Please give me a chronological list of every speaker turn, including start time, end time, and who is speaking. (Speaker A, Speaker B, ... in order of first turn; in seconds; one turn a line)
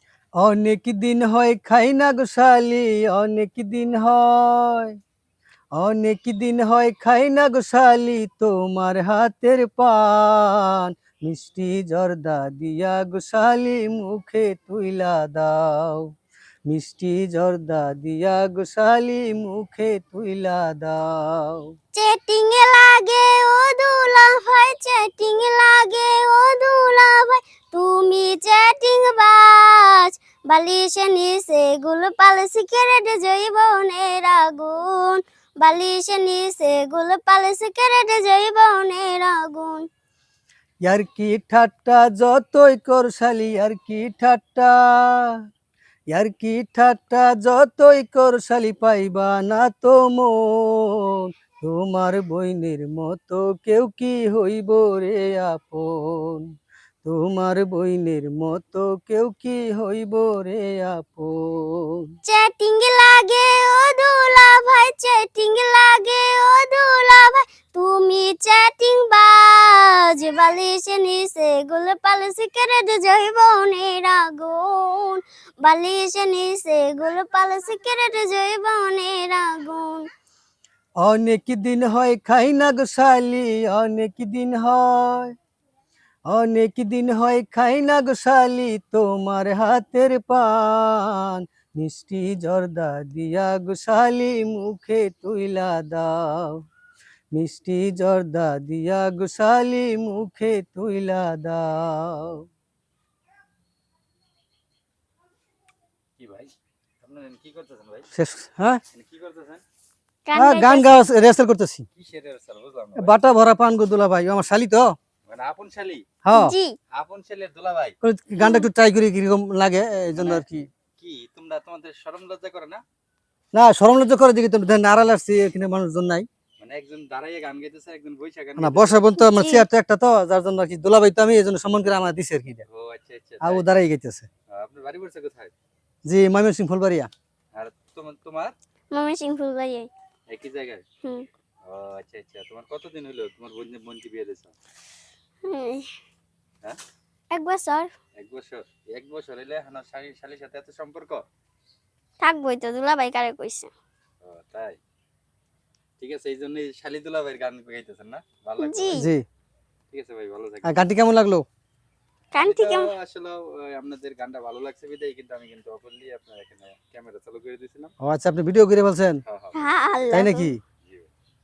Speaker A: 0.4-5.0
Speaker A: 5.8-16.1
Speaker A: 16.7-21.6
Speaker B: 21.9-39.9
Speaker A: 40.9-45.4
Speaker A: 46.1-56.5
Speaker A: 57.0-62.0
Speaker B: 62.2-80.1
Speaker A: 81.0-85.3
Speaker A: 86.3-96.6
Speaker A: 97.3-102.4
Speaker C: 106.2-108.1
Speaker A: 108.1-108.8
Speaker C: 108.9-109.6
Speaker B: 110.3-110.9
Speaker A: 110.4-111.8
Speaker C: 112.0-113.2
Speaker A: 113.0-114.9
Speaker C: 115.3-116.1
Speaker A: 116.2-116.5
Speaker B: 116.3-116.8
Speaker C: 116.9-118.0
Speaker A: 118.0-120.7
Speaker B: 118.4-118.7
Speaker C: 120.2-120.4
Speaker C: 121.0-122.8
Speaker A: 123.5-126.3
Speaker C: 126.6-129.1
Speaker A: 128.6-132.7
Speaker B: 129.2-129.7
Speaker C: 132.7-133.7
Speaker A: 133.4-134.3
Speaker C: 134.5-135.5
Speaker A: 136.1-137.1
Speaker C: 137.5-138.6
Speaker B: 138.9-139.9
Speaker C: 140.3-140.8
Speaker C: 141.7-144.6
Speaker B: 145.4-145.9
Speaker B: 147.3-147.9
Speaker C: 148.2-151.2
Speaker B: 152.2-153.7
Speaker C: 154.2-154.8
Speaker C: 156.0-159.0
Speaker B: 158.6-159.1
Speaker A: 158.9-159.2
Speaker C: 159.9-160.9
Speaker A: 160.6-161.4
Speaker B: 162.3-162.9
Speaker C: 162.4-167.9
Speaker A: 168.0-169.2
Speaker C: 169.3-169.7
Speaker B: 169.5-170.5
Speaker A: 170.1-170.6